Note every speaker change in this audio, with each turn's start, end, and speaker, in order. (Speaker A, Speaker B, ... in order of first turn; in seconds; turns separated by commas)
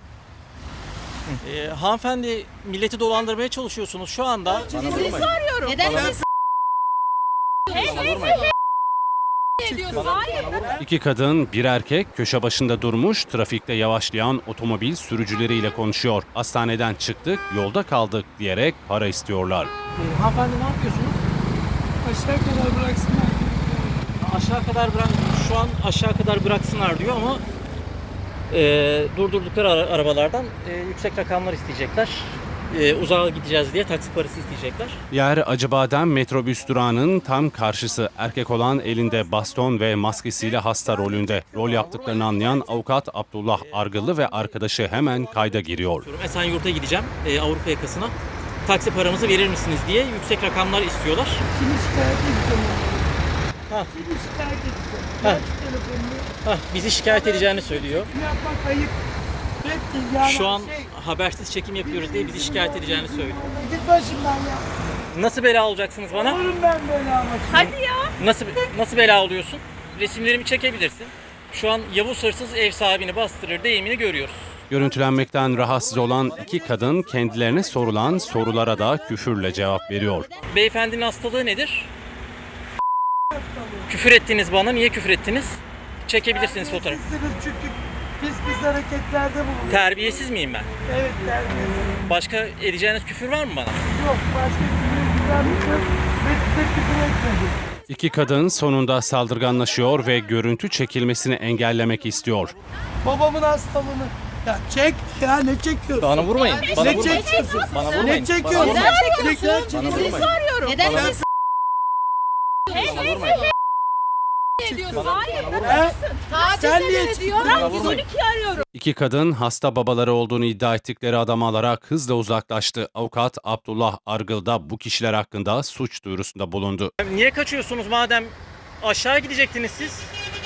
Speaker A: 1.3-5.4, Speaker B: 5.2-6.1, Speaker C: 5.9-6.2, Speaker A: 7.8-8.1, Speaker B: 8.0-8.3, Speaker C: 9.6-10.1, Speaker B: 9.6-10.5, Speaker D: 10.8-19.7, Speaker A: 20.0-21.2, Speaker C: 22.0-24.1, Speaker A: 24.2-27.4, Speaker A: 28.5-35.0, Speaker D: 35.1-46.1, Speaker A: 43.5-44.4, Speaker A: 45.6-48.1, Speaker A: 48.6-51.5, Speaker C: 51.5-53.0, Speaker C: 53.9-56.3, Speaker A: 56.4-58.1, Speaker C: 57.1-59.0, Speaker C: 59.6-60.9, Speaker A: 60.2-63.4, Speaker C: 61.8-64.7, Speaker A: 65.1-66.4, Speaker C: 66.1-67.7, Speaker A: 67.5-74.6, Speaker B: 67.8-68.1, Speaker D: 74.7-80.3, Speaker A: 80.5-81.9, Speaker C: 83.3-83.9, Speaker A: 83.9-87.0, Speaker C: 86.3-89.8, Speaker A: 89.7-90.7, Speaker C: 90.8-92.1, Speaker A: 92.1-93.9, Speaker C: 93.9-97.6, Speaker D: 97.9-102.5, Speaker C: 103.0-111.2, Speaker A: 106.0-109.1, Speaker B: 108.8-109.1, Speaker A: 109.7-110.3, Speaker B: 110.2-111.1, Speaker A: 112.7-113.5, Speaker C: 114.6-118.0, Speaker A: 114.9-115.8, Speaker B: 115.0-115.5, Speaker A: 117.5-118.1, Speaker B: 118.2-118.6, Speaker D: 118.7-126.9, Speaker A: 127.0-130.1